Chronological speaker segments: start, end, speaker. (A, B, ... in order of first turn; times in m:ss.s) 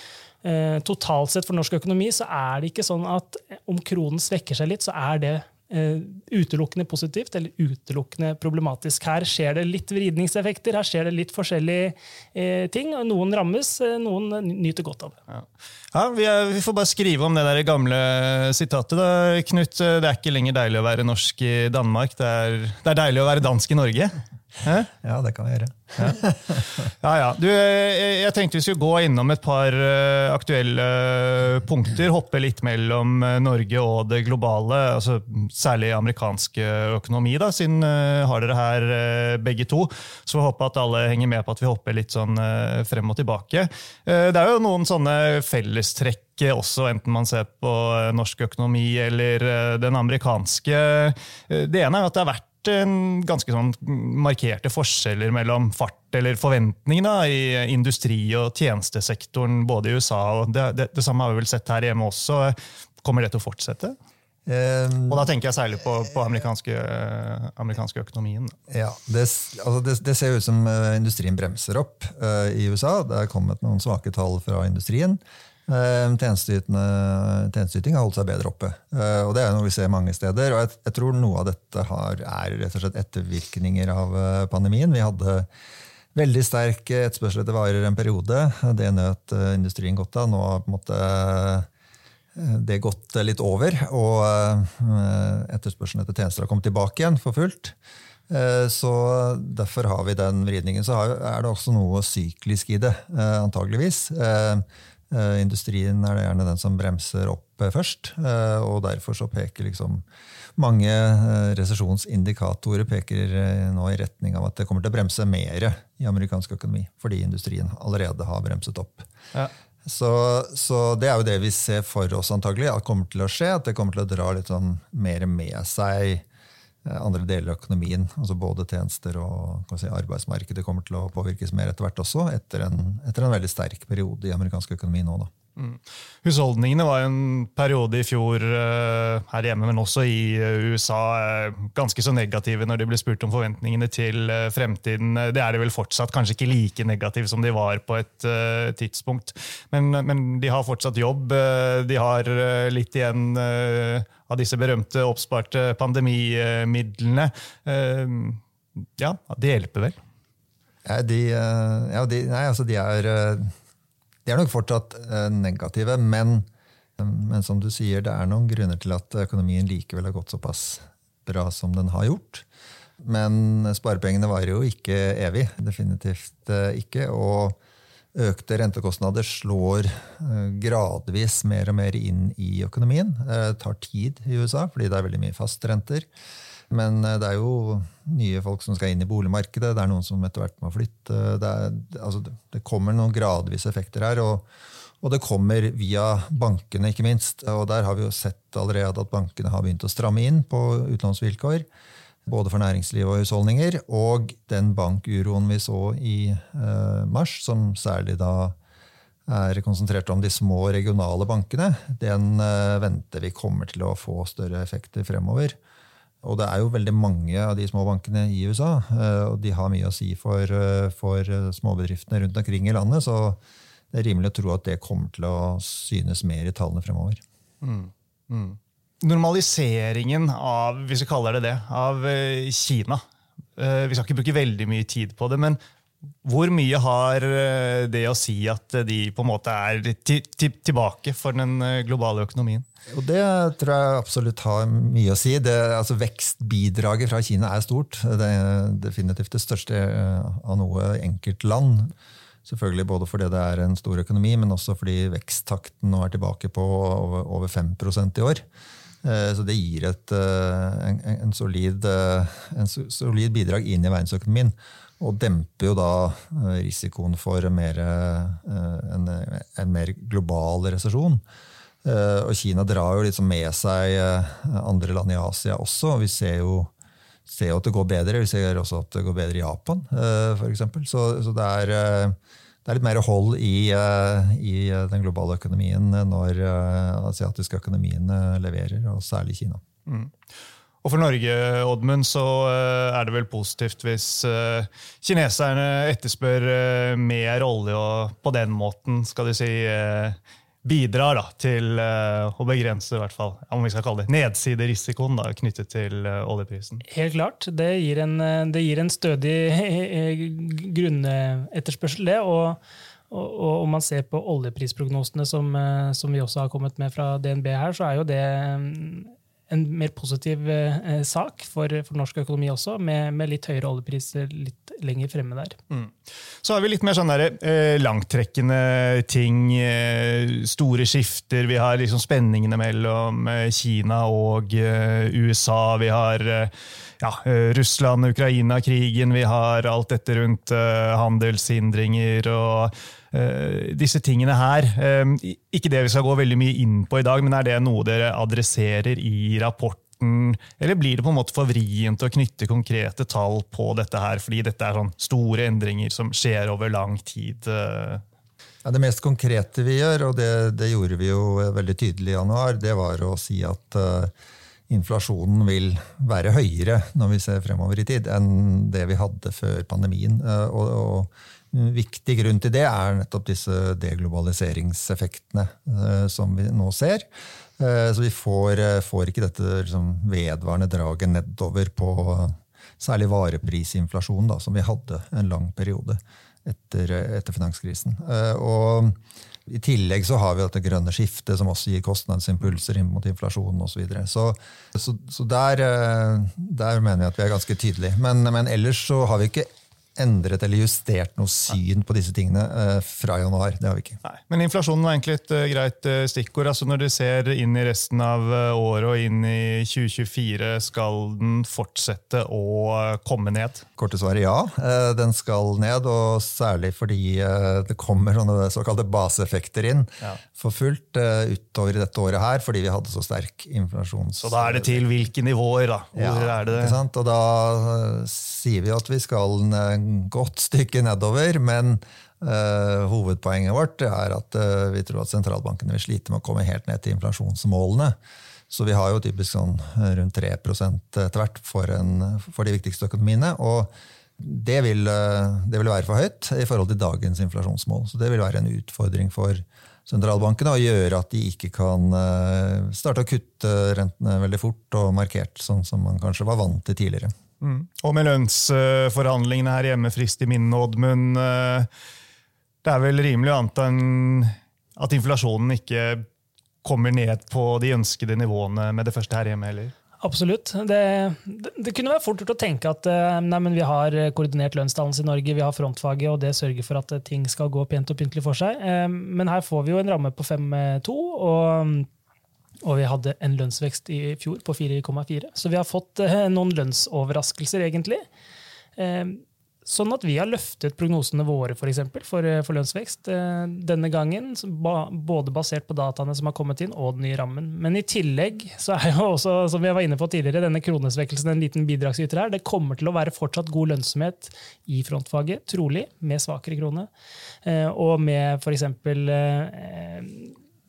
0:00.4-0:15.2 A
0:15.3-0:24.9 B
0:25.0-0:26.6 C
0:27.0-1:04.0 B
1:04.4-1:05.3 C
1:05.1-1:08.5 B
1:08.7-1:25.5 C
1:26.1-1:31.7 C
1:32.3-1:37.7 C
1:38.3-1:50.0 C
1:50.6-1:59.1 C
1:59.8-2:06.2 C
2:06.8-2:15.3 C
2:15.6-2:38.4 B
2:39.0-2:40.0 B
2:40.8-2:43.5 C
2:44.2-2:52.4 C
2:53.0-2:57.6 C
2:58.1-3:06.1 C
3:06.7-3:14.5 C
3:15.0-3:21.7 C
3:22.2-3:28.6 C
3:29.3-3:35.6 C
3:36.2-3:43.4 C
3:43.9-3:47.2 C
3:47.6-3:53.0 B
3:53.6-3:55.6 B
3:56.2-4:02.6 B
4:02.9-4:11.9 C
4:12.4-4:18.4 C
4:19.0-4:31.2 C
4:31.8-4:36.7 C
4:37.3-4:49.6 C
4:49.8-4:50.2 B
4:50.8-5:06.8 B
5:06.9-5:12.6 A
5:13.1-5:25.6 A
5:25.7-5:58.0 B
5:58.6-6:04.1 C
6:04.7-6:17.1 C
6:17.6-6:44.0 C
6:44.0-6:53.6 B
6:53.8-7:04.8 C
7:04.2-7:06.8 B
7:05.9-7:18.0 C
7:18.5-7:37.1 C
7:37.4-7:41.7 B
7:42.6-7:46.0 B
7:46.6-7:49.7 B
7:50.0-8:01.9 A
8:02.6-8:08.0 A
8:08.8-8:26.9 A
8:27.4-8:30.3 A